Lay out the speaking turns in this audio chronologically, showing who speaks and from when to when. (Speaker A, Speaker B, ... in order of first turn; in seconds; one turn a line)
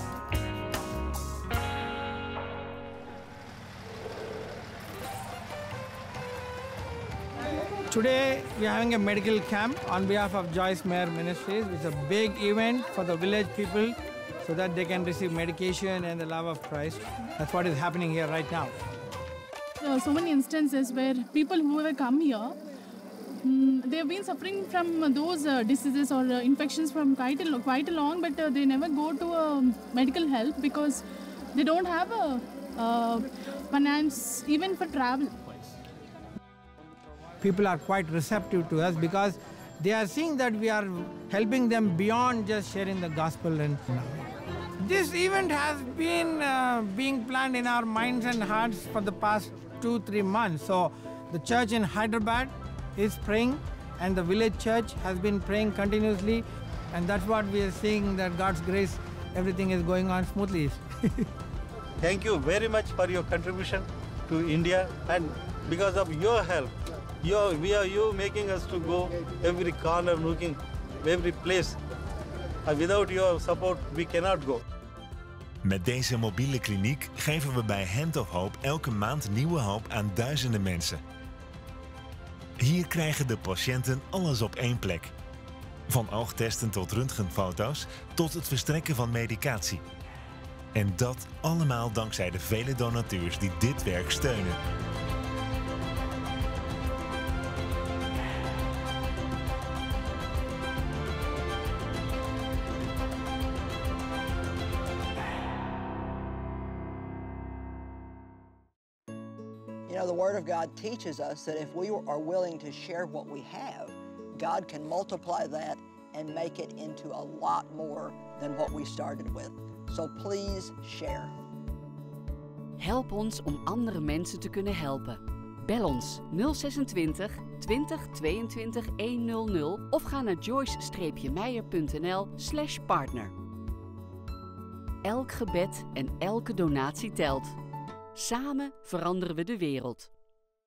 Speaker A: 7.9-18.8
Speaker B: 19.8-22.6
Speaker B: 23.4-35.4
Speaker A: 37.4-61.3
Speaker C: 62.0-71.8
Speaker C: 72.7-74.6
Speaker D: 75.6-81.0
Speaker D: 82.6-85.1
Speaker D: 85.9-89.8
Speaker D: 90.7-94.6
Speaker E: 109.9-121.3
Speaker F: 122.8-133.3
Speaker F: 135.0-137.6
Speaker F: 138.1-140.1